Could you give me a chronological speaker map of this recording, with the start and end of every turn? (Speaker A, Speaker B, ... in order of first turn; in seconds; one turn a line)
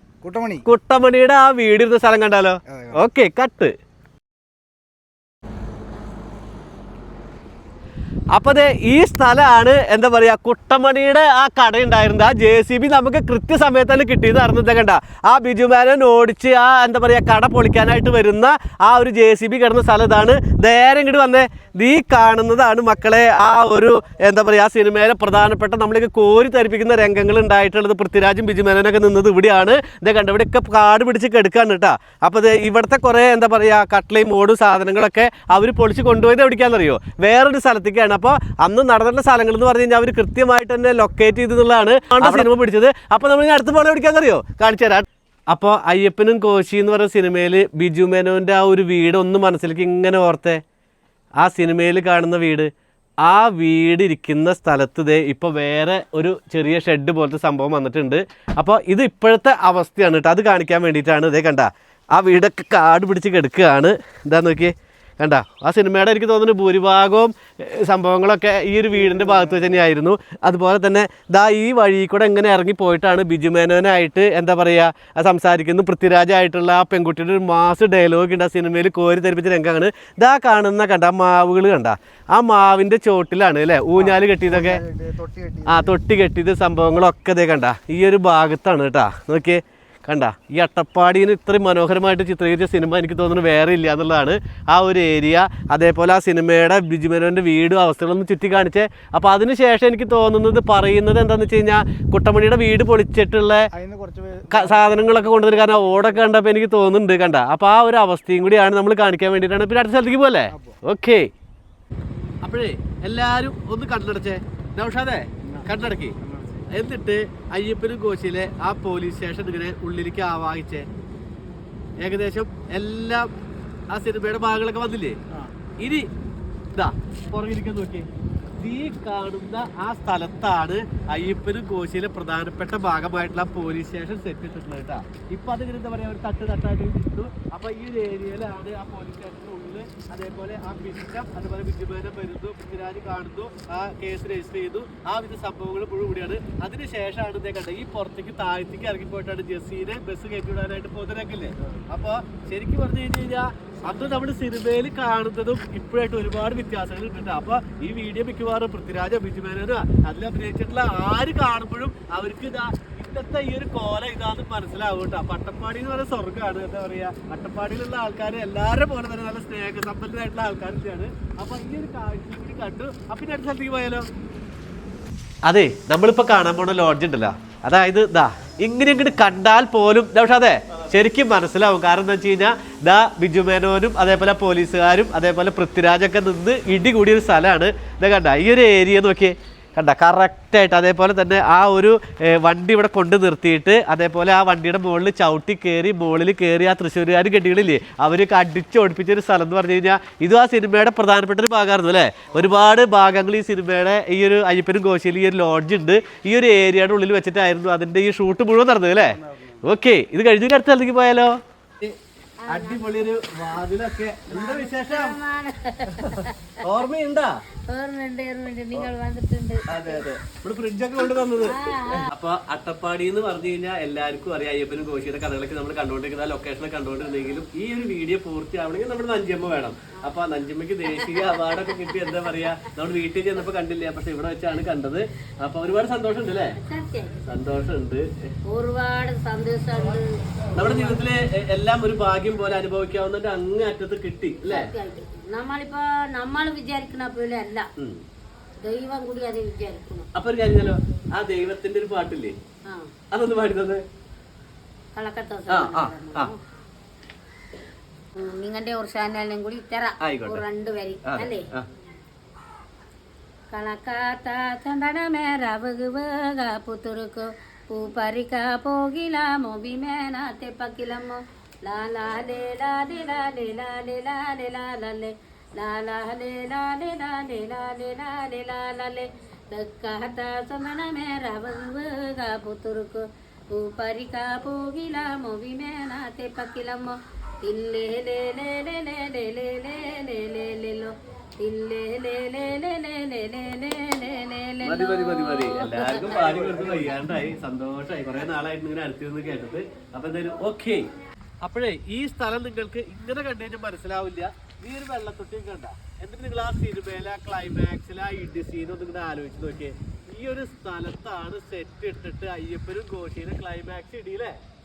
Speaker A: 0.2-0.7
Speaker B: 0.6-3.7
Speaker A: 2.7-3.0
Speaker B: 8.3-50.6
Speaker B: 51.4-52.7
Speaker B: 53.2-84.8
Speaker A: 68.9-69.8
Speaker A: 83.9-86.0
Speaker B: 85.7-103.7
Speaker A: 103.7-106.1
Speaker B: 104.5-111.3
Speaker A: 110.5-110.8
Speaker B: 112.4-116.1
Speaker A: 115.4-116.6
Speaker B: 116.7-120.8
Speaker B: 122.0-123.3
Speaker B: 123.9-125.2
Speaker B: 125.8-126.1
Speaker B: 126.7-128.1
Speaker B: 128.6-174.1
Speaker B: 175.4-211.9
Speaker A: 209.0-209.6
Speaker C: 212.4-213.1
Speaker B: 212.5-215.2
Speaker C: 214.3-216.6
Speaker B: 215.9-217.4
Speaker C: 217.7-220.1
Speaker B: 219.7-236.6
Speaker C: 221.4-222.1
Speaker C: 230.9-232.6
Speaker C: 236.6-237.2
Speaker B: 237.2-238.3
Speaker C: 238.5-241.0
Speaker B: 240.5-244.7
Speaker C: 244.4-247.7
Speaker C: 248.6-250.1
Speaker B: 250.1-252.3
Speaker C: 252.7-252.9
Speaker B: 253.1-253.8
Speaker C: 254.9-256.4
Speaker B: 255.5-256.3
Speaker C: 258.1-261.5
Speaker B: 260.0-260.4
Speaker B: 261.0-261.7
Speaker C: 263.5-296.9
Speaker B: 294.6-300.9
Speaker B: 301.4-314.4